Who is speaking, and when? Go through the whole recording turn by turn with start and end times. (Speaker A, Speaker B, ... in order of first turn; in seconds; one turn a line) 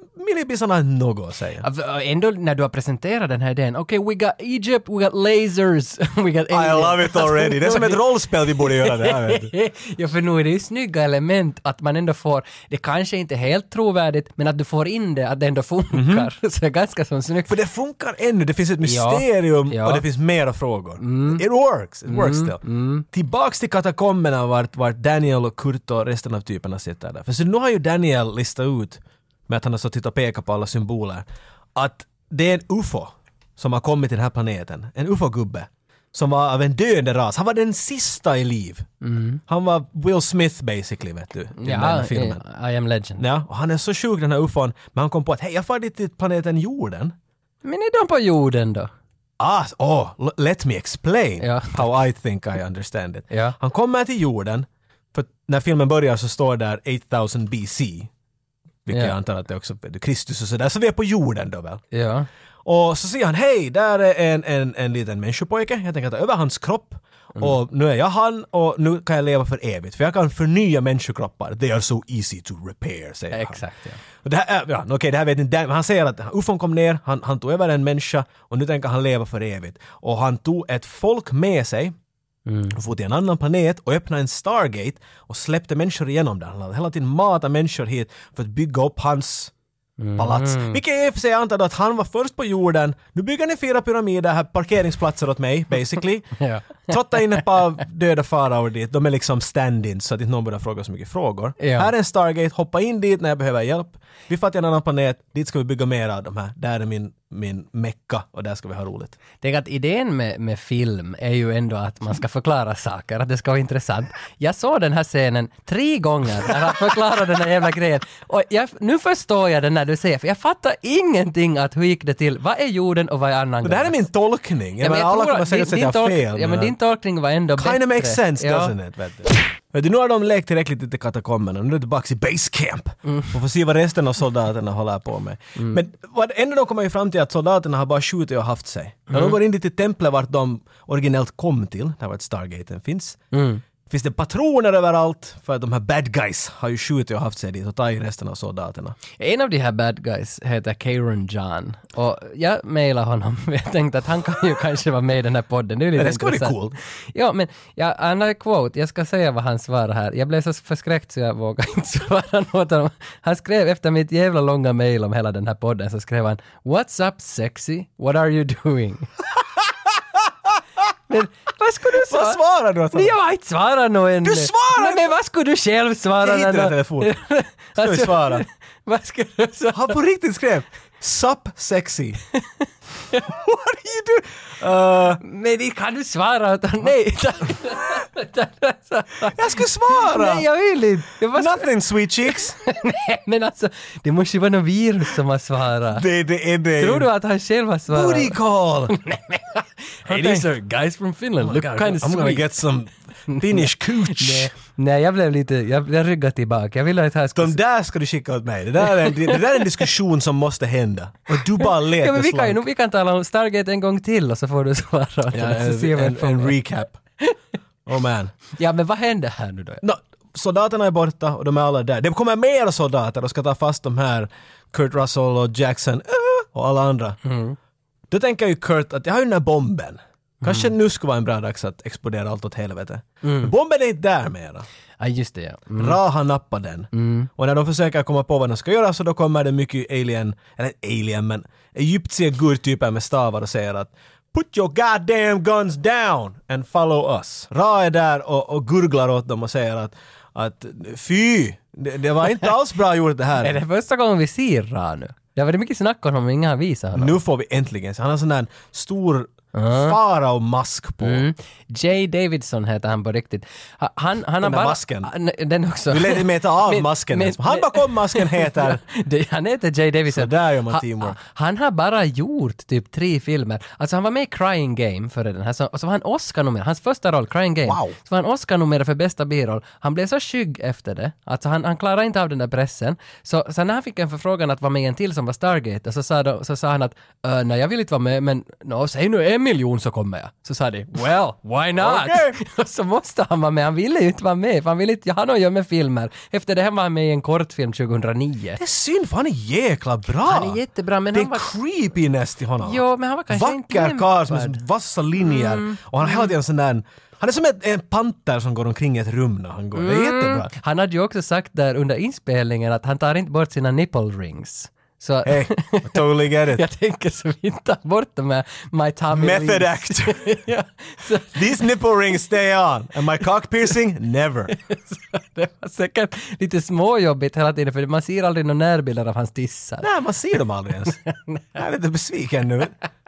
Speaker A: 0.2-1.6
Speaker B: 1.6-17.6
Speaker A: 6.5-9.5
Speaker A: 15.9-16.3
Speaker A: 17.5-38.9
Speaker B: 18.8-20.0
Speaker B: 21.0-21.4
Speaker B: 22.1-23.0
Speaker B: 39.0-39.4
Speaker A: 39.5-42.4
Speaker B: 41.6-43.2
Speaker A: 43.2-47.2
Speaker B: 47.6-48.9
Speaker A: 49.4-58.1
Speaker B: 51.4-51.9
Speaker B: 53.3-53.6
Speaker A: 58.9-61.8
Speaker B: 58.9-59.1
Speaker B: 61.9-62.3
Speaker A: 62.6-73.6
Speaker B: 73.3-74.0
Speaker A: 74.2-82.0
Speaker B: 82.5-82.8
Speaker A: 82.7-89.5
Speaker B: 90.0-90.8
Speaker A: 90.2-109.2
Speaker B: 96.4-97.5
Speaker B: 101.6-101.9
Speaker B: 109.4-124.0
Speaker A: 123.6-126.8
Speaker B: 124.8-128.7
Speaker A: 127.6-143.2
Speaker B: 133.1-133.3
Speaker B: 139.1-139.4
Speaker B: 143.3-143.6
Speaker A: 143.9-149.0
Speaker B: 149.2-156.6
Speaker A: 156.0-156.8
Speaker B: 157.1-169.1
Speaker B: 171.1-172.4
Speaker A: 171.9-173.2
Speaker B: 172.9-180.0
Speaker A: 174.2-175.1
Speaker A: 176.2-177.2
Speaker A: 177.8-178.5
Speaker A: 179.7-182.2
Speaker A: 183.2-185.2
Speaker B: 185.2-189.4
Speaker A: 189.3-190.5
Speaker B: 189.9-191.7
Speaker A: 191.3-192.6
Speaker B: 192.3-196.0
Speaker A: 195.9-197.1
Speaker B: 196.8-198.4
Speaker A: 197.9-198.9
Speaker B: 198.9-202.5
Speaker A: 200.1-200.5
Speaker A: 201.4-204.5
Speaker B: 203.3-207.6
Speaker A: 207.3-212.6
Speaker B: 209.1-209.6
Speaker B: 211.7-216.6
Speaker A: 215.3-217.0
Speaker A: 217.9-218.3
Speaker B: 218.6-219.8
Speaker A: 219.8-227.2
Speaker B: 227.2-227.6
Speaker A: 228.1-234.7
Speaker B: 230.4-230.7
Speaker B: 233.2-233.5
Speaker B: 235.0-236.0
Speaker A: 235.8-253.6
Speaker B: 236.9-237.3
Speaker B: 253.4-257.2
Speaker A: 256.9-261.2
Speaker B: 259.5-260.0
Speaker B: 261.0-298.6
Speaker A: 264.4-265.1
Speaker A: 265.9-268.8
Speaker A: 270.1-271.2
Speaker A: 277.7-278.0
Speaker A: 291.8-292.4
Speaker A: 298.6-300.6
Speaker B: 300.2-301.5
Speaker A: 301.1-310.5
Speaker B: 302.6-304.6
Speaker B: 305.2-306.3
Speaker B: 309.8-321.7
Speaker A: 315.2-316.6
Speaker A: 319.1-320.4
Speaker A: 321.3-324.5
Speaker B: 324.5-329.9
Speaker A: 329.8-331.0
Speaker B: 331.0-331.6
Speaker A: 331.6-332.8